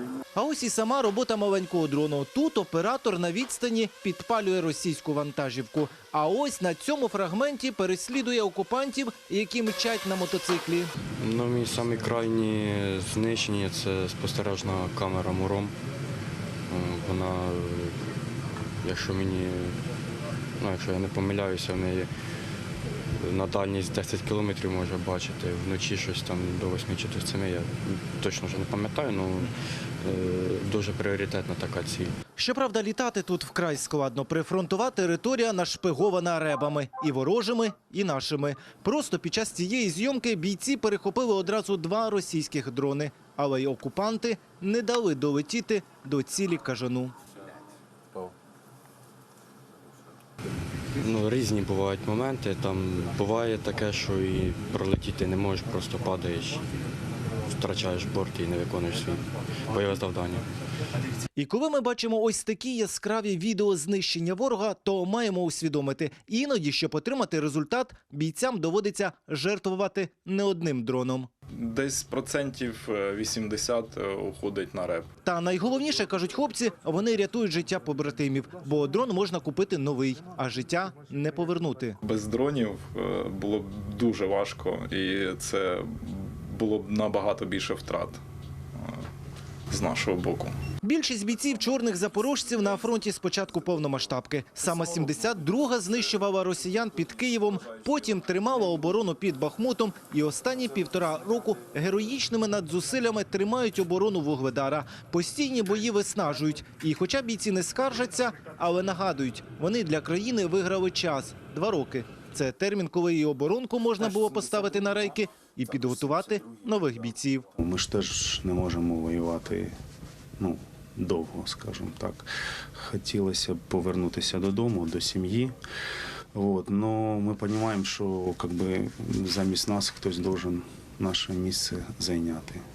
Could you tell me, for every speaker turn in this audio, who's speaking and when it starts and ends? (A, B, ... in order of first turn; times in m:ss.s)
0:00.3-0:10.9 A
0:11.2-0:15.8 B
0:16.7-0:18.0 B
0:18.8-0:19.8 B
0:20.6-0:22.1 B
0:23.2-0:32.1 B
0:32.4-0:47.1 A
0:51.0-0:56.7 B
0:57.5-1:00.5 B
1:01.4-1:11.3 A
1:11.6-1:15.1 C
1:15.2-1:22.0 A
1:22.0-1:28.2 C
1:28.8-1:29.0 C
1:29.7-1:30.6 C
1:30.8-1:57.5 A
1:57.6-1:59.8 D
2:00.4-2:05.6 D
2:06.3-2:12.6 D